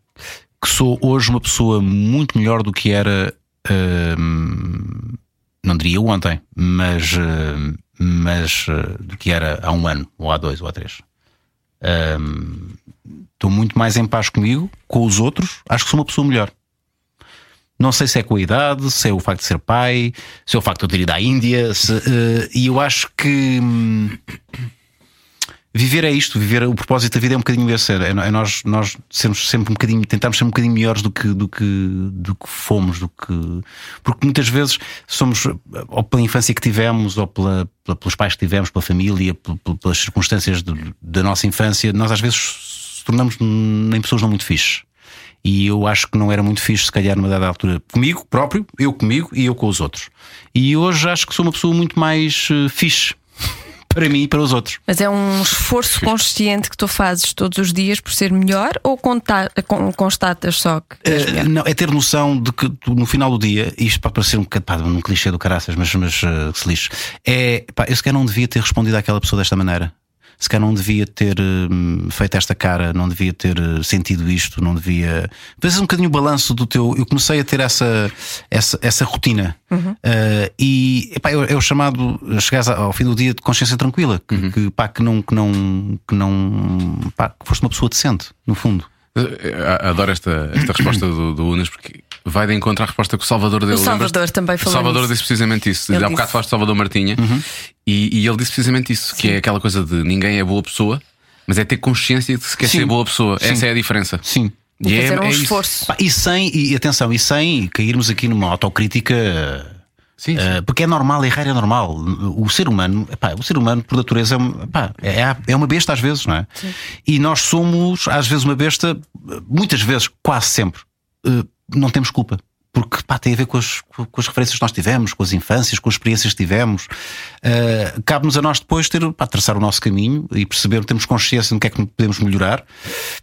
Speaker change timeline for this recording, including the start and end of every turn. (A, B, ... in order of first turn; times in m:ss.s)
0:00.6-0:11.0 A
0:11.8-0:12.8 A
0:13.4-0:16.5 A
0:17.8-0:24.2 A
0:25.7-0:44.8 A
0:45.4-0:53.2 A
0:53.9-0:54.8 A
0:54.9-1:01.5 B
1:01.0-1:28.9 A
1:29.2-1:37.3 C
1:33.7-1:35.1 B
1:35.9-1:36.3 B
1:37.2-1:37.4 A
1:37.9-1:44.2 C
1:42.6-1:43.7 A
1:44.2-1:44.6 A
1:44.8-1:45.6 C
1:44.8-1:45.9 B
1:45.9-1:49.8 A
1:50.2-1:50.5 C
1:50.4-1:56.5 A
1:57.0-2:06.9 A
2:07.4-2:12.7 A